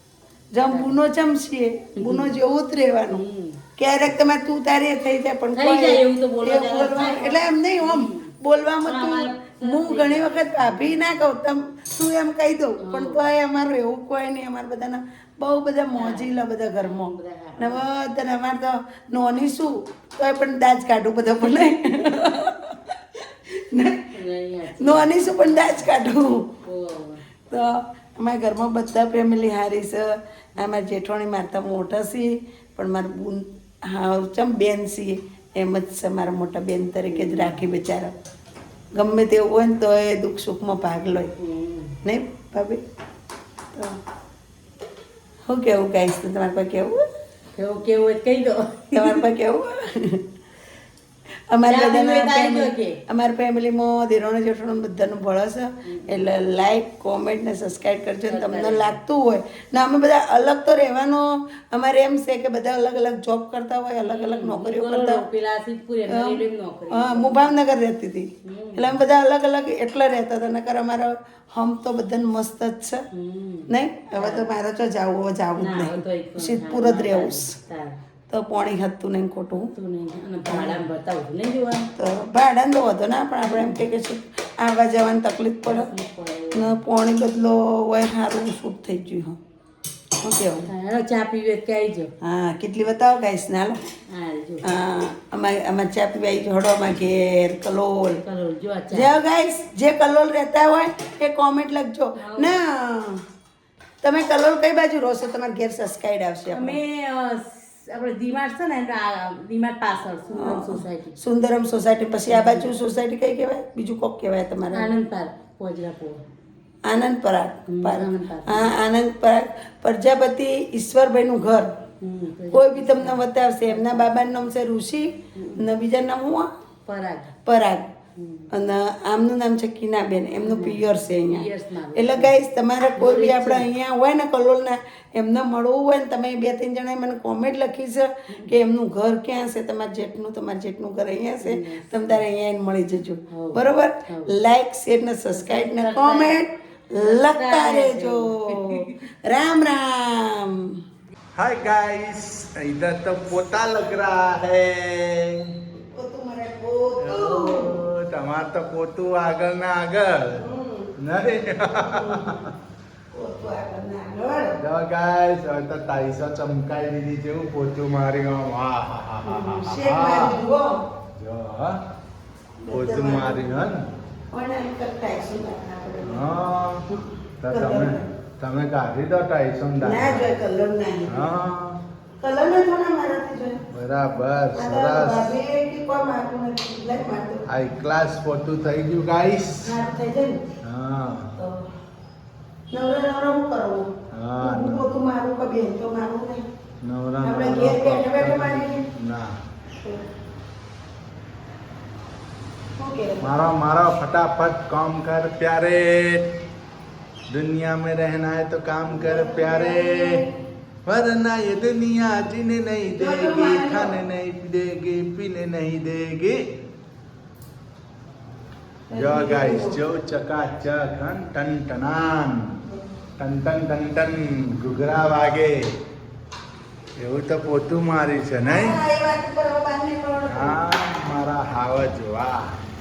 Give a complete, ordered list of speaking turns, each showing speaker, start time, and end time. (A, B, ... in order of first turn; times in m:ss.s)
0:00.5-0:03.2 A
0:00.6-0:01.0 B
0:02.0-0:02.4 B
0:03.1-0:03.6 B
0:03.8-0:24.1 A
0:05.6-0:08.3 B
0:08.9-0:11.0 B
0:12.8-0:13.2 B
0:15.9-0:17.8 B
0:24.1-0:25.9 B
0:24.8-0:26.5 A
0:26.6-0:27.2 B
0:27.5-0:38.2 A
0:37.1-0:37.6 B
0:38.9-0:41.3 A
0:41.4-0:41.9 B
0:42.0-0:42.8 A
0:45.5-0:47.0 A
0:47.6-0:49.2 B
0:48.9-0:50.2 A
0:51.5-1:05.2 A
0:51.7-0:53.0 B
0:55.9-0:56.3 B
0:58.3-0:59.0 B
1:04.1-1:07.5 B
1:06.1-1:13.0 A
1:08.4-1:09.0 B
1:13.1-1:14.5 B
1:13.7-1:17.6 A
1:15.6-1:18.0 B
1:18.3-1:19.7 A
1:19.7-1:21.9 B
1:20.5-1:20.8 A
1:22.0-1:25.9 A
1:23.4-1:23.8 B
1:25.6-1:26.8 B
1:26.5-1:29.4 A
1:30.2-1:30.7 A
1:30.7-1:32.1 B
1:32.2-1:33.8 A
1:34.1-1:34.6 B
1:34.6-1:38.2 A
1:38.2-1:39.1 B
1:38.9-1:43.2 A
1:42.2-1:42.6 B
1:44.0-1:46.8 A
1:46.5-1:51.2 B
1:50.4-1:54.9 A
1:52.3-1:52.7 B
1:54.7-1:56.2 B
1:56.8-2:01.7 A
1:57.7-1:58.7 B
2:02.0-2:04.1 B
2:02.5-2:06.5 A
2:05.4-2:05.6 B
2:06.9-2:07.3 B
2:07.5-2:07.9 A
2:08.2-2:08.5 B
2:08.5-2:30.7 A
2:10.4-2:12.3 B
2:13.0-2:13.7 B
2:21.4-2:22.2 B
2:23.3-2:24.3 B
2:25.3-2:26.4 B
2:27.0-2:29.0 B
2:31.4-2:35.5 C
2:35.8-2:37.8 A
2:37.0-2:40.4 C
2:40.4-2:40.9 A
2:41.0-2:42.5 C
2:41.7-2:42.5 A
2:43.1-2:44.6 A
2:44.6-2:50.4 C
2:49.2-2:50.8 A
2:51.2-2:51.8 C
2:52.6-2:53.4 A
2:52.7-2:53.8 C
2:54.3-2:56.4 A
2:56.0-2:56.8 C
2:56.9-2:58.1 A
2:57.4-3:00.3 C
2:59.8-3:01.2 A
3:01.1-3:01.8 C
3:02.2-3:03.6 A
3:03.7-3:05.3 C
3:04.6-3:07.4 A
3:07.5-3:09.8 C
3:09.6-3:10.4 A
3:10.6-3:11.3 C
3:11.4-3:11.6 A
3:12.7-3:13.9 A
3:14.1-3:14.9 C
3:14.4-3:16.4 A
3:16.8-3:19.4 C
3:17.2-3:18.8 A
3:22.8-3:23.4 A
3:23.2-3:26.3 C
3:27.3-3:30.2 C
3:29.0-3:30.3 A
3:30.9-3:36.4 C
3:32.9-3:34.0 A
3:38.9-3:39.8 A
3:38.9-3:42.6 C
3:43.2-3:45.7 C
3:47.0-3:48.8 C
3:48.5-3:50.6 A
3:50.3-3:52.6 C